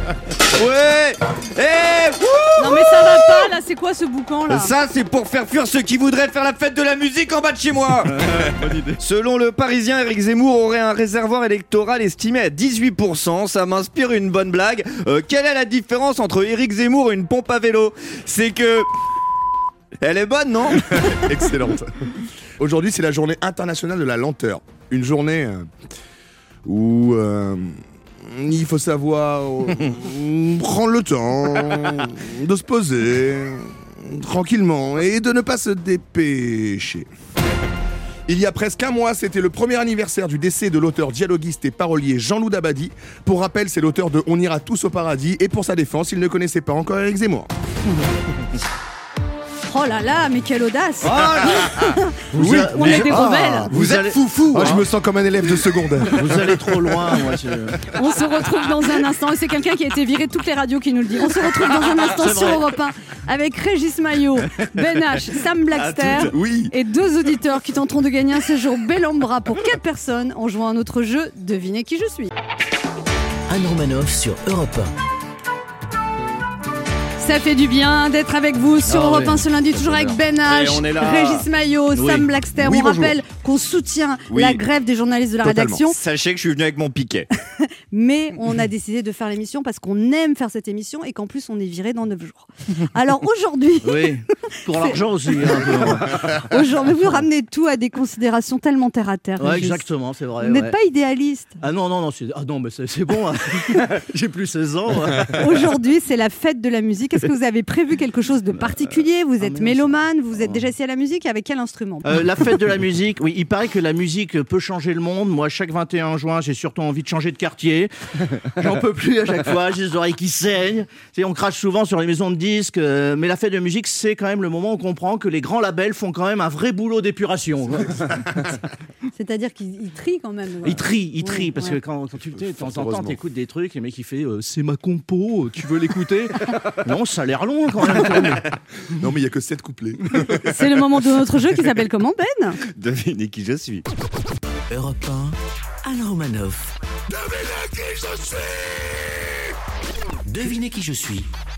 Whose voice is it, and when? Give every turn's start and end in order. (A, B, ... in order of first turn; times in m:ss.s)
0:00.5-0:03.5 A
0:02.5-0:04.7 B
0:04.5-0:18.9 A
0:20.0-0:21.2 A
0:21.1-0:25.7 C
0:26.6-0:37.1 C
0:38.3-0:47.5 C
0:49.7-0:52.1 B
0:51.0-0:51.7 A
0:52.3-0:54.7 D
0:52.4-0:56.9 C
0:52.7-0:53.7 B
0:53.7-0:54.8 A
0:56.1-0:57.8 D
0:57.9-1:12.3 B
1:01.9-1:02.7 D
1:05.8-1:06.3 A
1:06.3-1:06.7 C
1:13.5-1:14.9 E
1:17.2-1:26.0 B
1:18.8-1:20.2 D
1:20.5-1:21.4 A
1:21.9-1:22.3 D
1:22.6-1:23.2 A
1:24.3-1:24.6 A
1:25.4-1:27.3 A
1:27.6-1:34.1 B
1:33.8-1:36.4 D
1:35.6-1:39.9 B
1:39.4-1:40.8 D
1:40.4-1:41.6 B
1:41.6-1:45.7 D
1:45.4-1:52.1 B
1:49.4-1:50.5 D
1:52.0-1:57.9 D
1:58.5-2:08.4 D
2:09.1-2:11.8 B
2:10.6-2:18.4 D
2:12.3-2:13.2 C
2:18.9-2:20.4 C
2:20.4-2:22.6 B
2:22.7-2:23.9 A
2:24.7-2:26.7 E
2:30.2-2:31.3 E